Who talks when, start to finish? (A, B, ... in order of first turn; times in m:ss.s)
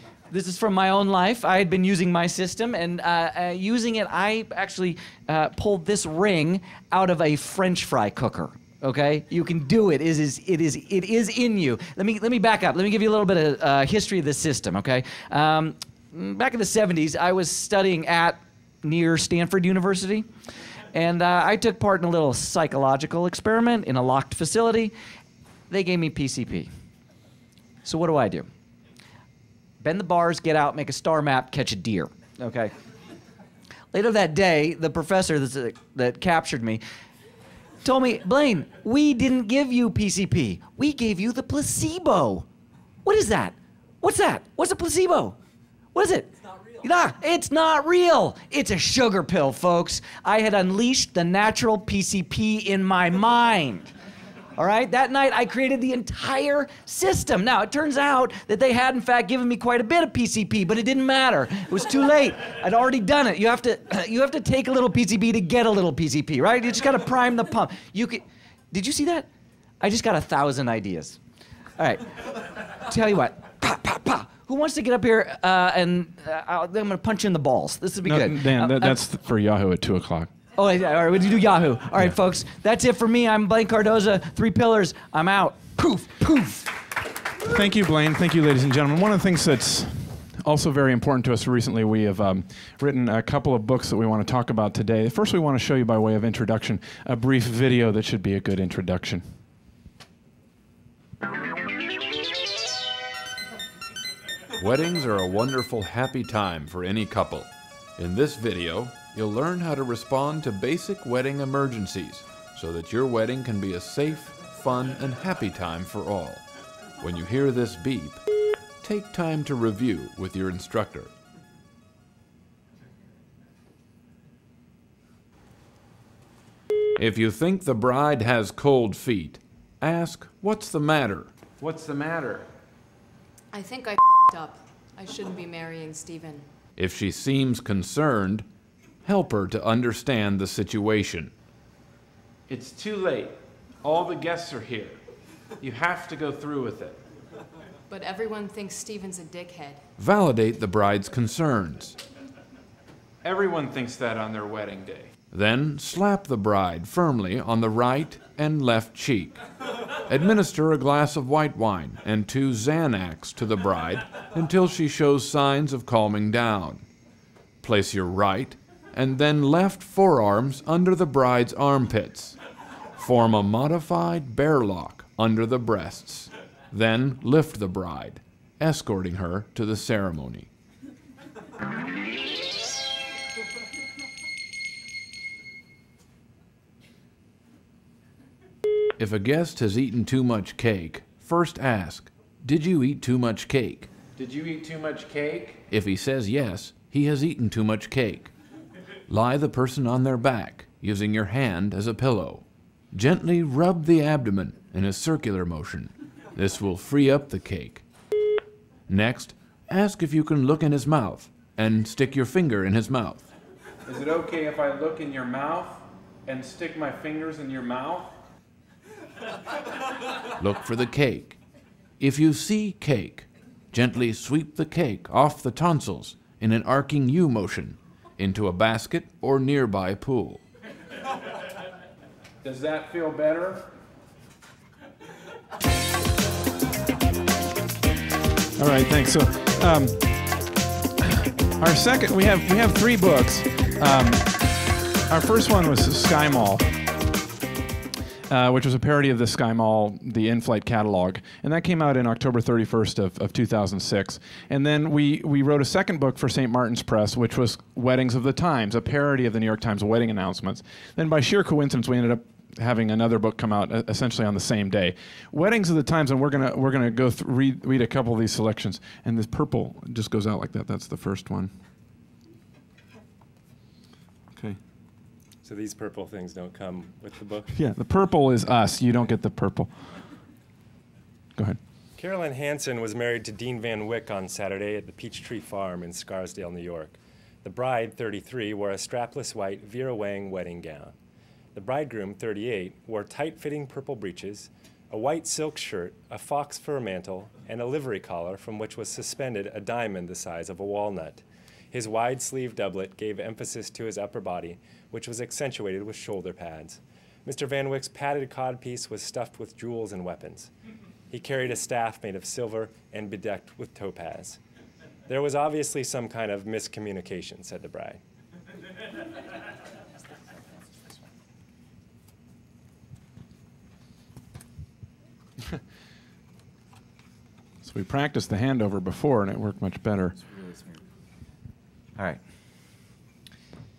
0:00.3-0:20.2 A
0:20.9-0:24.9 A
0:25.7-0:26.7 A
0:27.8-0:28.5 A
0:29.8-0:32.7 A
0:33.9-0:36.8 A
0:37.8-0:42.5 A
0:43.0-0:45.4 A
0:45.9-0:53.9 A
0:54.6-1:09.3 A
1:09.8-1:11.2 A
1:11.8-1:19.0 A
1:18.0-1:20.3 B
1:20.6-1:26.8 A
1:27.4-1:39.2 B
1:44.6-1:56.4 C
1:57.0-1:58.2 C
1:58.8-2:01.1 C
2:07.0-2:11.3 C
2:11.6-2:12.5 B
2:13.5-2:16.5 D
2:16.8-2:18.4 C
2:19.0-2:21.3 C
2:22.5-2:25.0 B
2:25.6-2:27.0 B
2:27.9-2:29.8 D
2:30.0-2:32.0 C
2:33.2-2:35.1 B
2:35.3-2:39.4 C
2:40.0-2:46.8 C
2:47.6-2:52.4 C
2:53.0-3:00.5 C
3:09.0-3:13.9 C
3:14.2-3:15.6 B
3:15.6-3:18.3 C
3:19.1-3:27.8 C
3:28.9-3:33.3 C
3:33.8-3:38.2 B
3:40.4-3:41.4 C
3:42.0-3:50.4 C
3:52.4-3:53.7 B
3:58.6-4:00.4 B
4:01.0-4:04.3 B
4:05.1-4:06.6 B
4:08.3-4:31.5 B
4:35.4-4:37.5 E
4:37.5-4:39.7 B
4:42.0-4:50.9 E
4:51.5-5:10.5 E
5:11.1-5:14.4 E
5:15.1-5:18.0 E
5:27.6-5:30.2 B